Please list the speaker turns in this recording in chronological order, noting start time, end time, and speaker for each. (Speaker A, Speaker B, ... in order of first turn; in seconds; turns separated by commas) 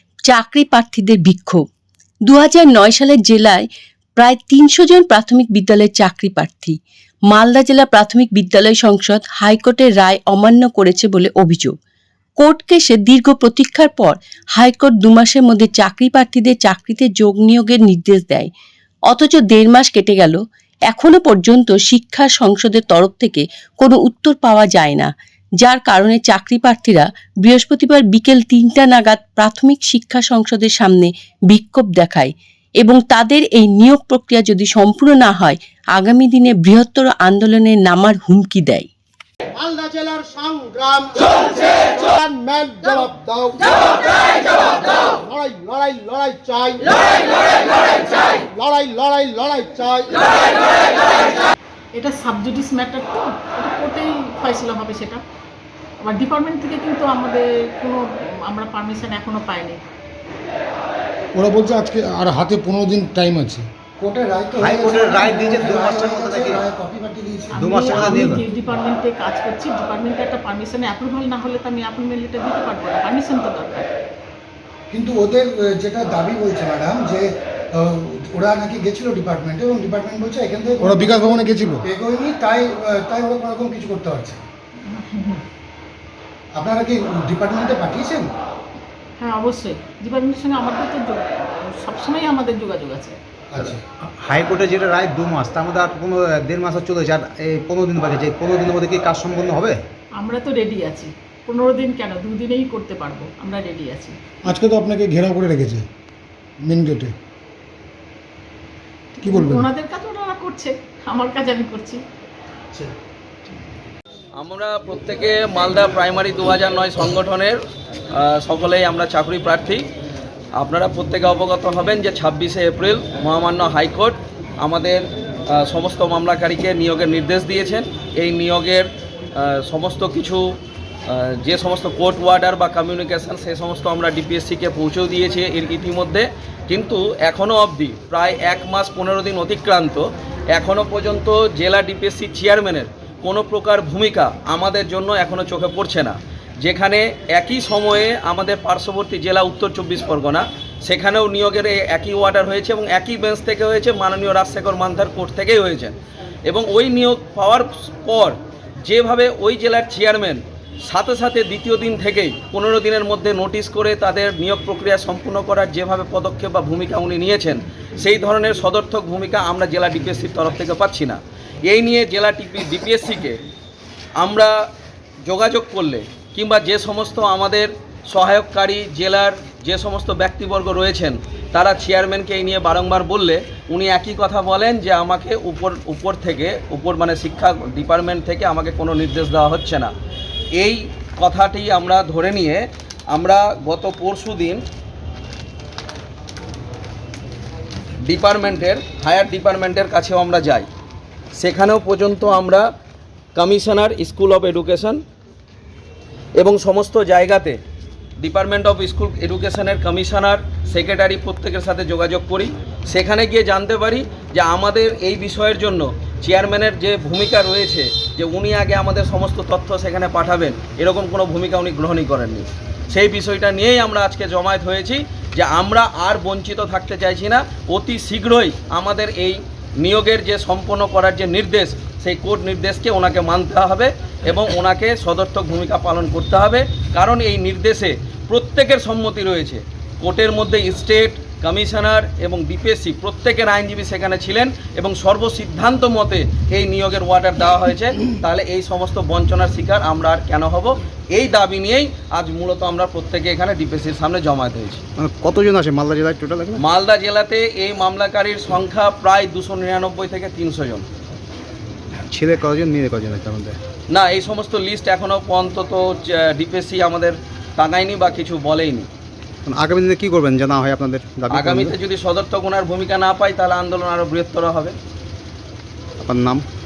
Speaker A: 0.3-1.6, Speaker A: 2.3-6.8, Speaker A: 7.3-11.8, Speaker A: 12.4-18.5, Speaker A: 19.1-38.9, Speaker B: 39.5-51.3, Speaker C: 52.0-55.2, Speaker C: 56.0-59.8, Speaker D: 61.4-63.7, Speaker E: 64.0-68.3, Speaker F: 64.6-66.6, Speaker C: 67.5-73.9, Speaker F: 67.6-68.4, Speaker E: 74.9-81.2, Speaker D: 80.8-81.8, Speaker E: 81.8-84.4, Speaker C: 84.9-85.4, Speaker E: 86.5-88.3, Speaker C: 89.2-93.2, Speaker E: 93.5-93.8, Speaker F: 93.6-99.8, Speaker C: 100.2-104.2, Speaker D: 104.4-105.8, Speaker D: 106.6-107.1, Speaker C: 109.2-112.0, Speaker D: 109.2-109.7, Speaker G: 114.4-117.6, Speaker G: 118.1-119.8, Speaker G: 120.6-128.8, Speaker G: 129.4-130.4, Speaker G: 131.1-173.4, Speaker G: 174.2-174.5, Speaker G: 175.2-189.9, Speaker G: 190.6-194.6, Speaker G: 198.1-200.7, Speaker G: 201.3-202.6, Speaker G: 203.3-205.0, Speaker G: 206.4-207.6, Speaker G: 208.2-254.8, Speaker F: 255.0-256.6, Speaker G: 256.6-260.9, Speaker F: 262.1-263.6, Speaker G: 263.9-268.9, Speaker F: 269.5-271.7, Speaker G: 271.3-274.8, Speaker F: 276.0-276.4